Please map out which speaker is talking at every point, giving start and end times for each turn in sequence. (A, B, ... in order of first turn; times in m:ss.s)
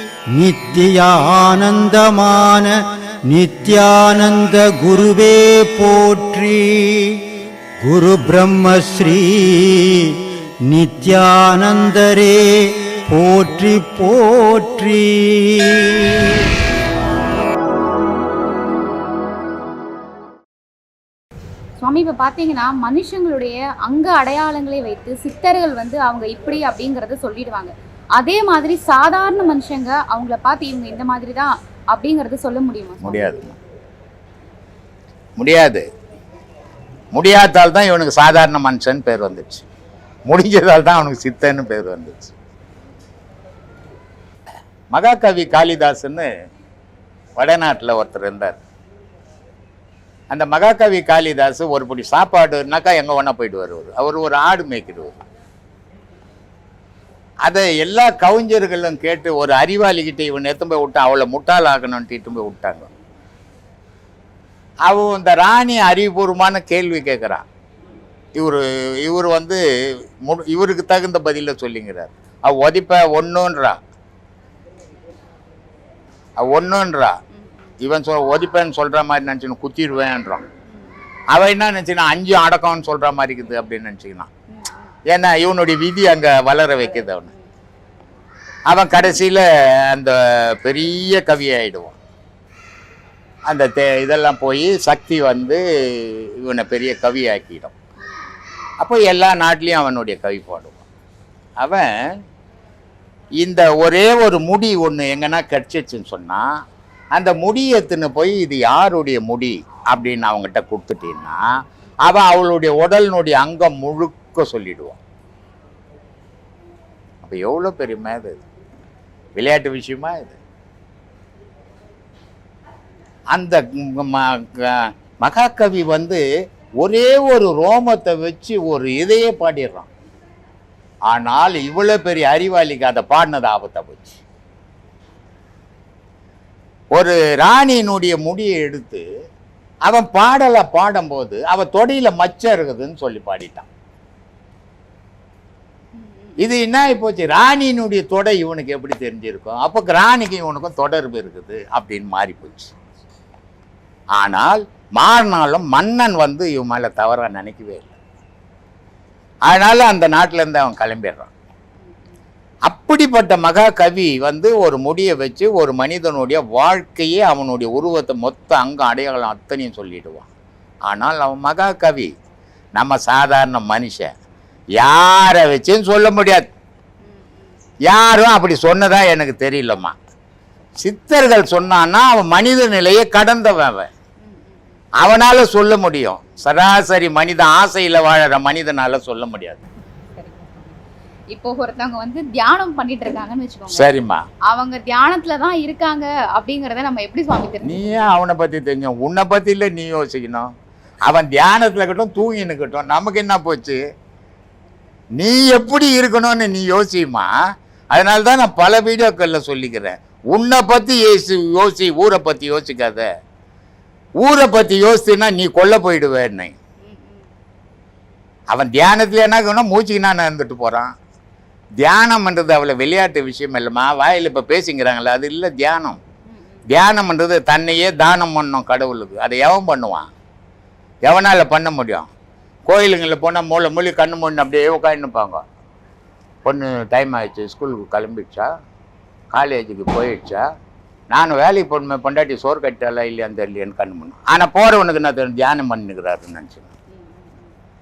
0:00.3-0:16.5 A
0:21.8-0:33.3 B
0:33.0-0:33.6 C
0:35.4-0:35.8 C
0:37.1-0:39.6 C
0:40.3-0:42.3 C
0:44.9-0:46.3 C
0:47.4-0:48.6 C
0:50.3-0:55.2 C
0:57.4-1:02.9 C
1:04.8-1:07.4 C
1:08.3-1:13.8 C
1:16.4-1:17.2 C
1:17.8-1:20.4 C
1:21.3-1:24.3 C
1:24.5-1:24.9 B
1:25.1-1:27.3 C
1:28.7-1:32.0 C
1:33.5-1:37.7 C
1:38.8-1:40.8 C
1:41.6-1:41.9 C
1:43.4-1:46.5 C
1:47.1-1:51.4 C
1:52.0-1:55.0 C
1:57.2-1:58.4 C
1:59.4-2:00.4 C
2:03.3-2:06.2 C
2:06.8-2:09.9 C
2:11.1-2:14.2 C
2:16.9-2:19.0 C
2:19.8-2:23.7 C
2:26.0-2:26.5 B
2:26.4-2:32.7 C
2:34.2-2:37.9 C
2:39.5-2:41.3 C
2:42.6-2:50.3 C
2:50.8-2:52.1 C
2:52.8-2:54.1 C
2:54.8-2:56.5 C
2:57.0-2:57.5 B
2:57.9-2:59.9 C
3:00.8-3:03.9 C
3:04.2-3:04.6 B
3:05.0-3:09.6 C
3:10.2-3:10.8 B
3:11.3-3:13.9 B
3:13.7-3:14.2 C
3:14.5-3:18.1 B
3:17.6-3:20.5 C
3:21.0-3:23.8 C
3:25.2-3:27.3 C
3:27.9-3:33.1 C
3:34.2-3:36.6 C
3:36.8-3:37.3 B
3:38.5-3:40.9 C
3:41.8-3:46.0 C
3:46.3-3:46.6 B
3:46.7-3:50.1 C
3:51.1-3:52.1 C
3:52.7-3:55.4 C
3:56.4-3:58.5 C
3:59.3-4:00.4 C
4:01.1-4:06.7 C
4:06.9-4:07.5 B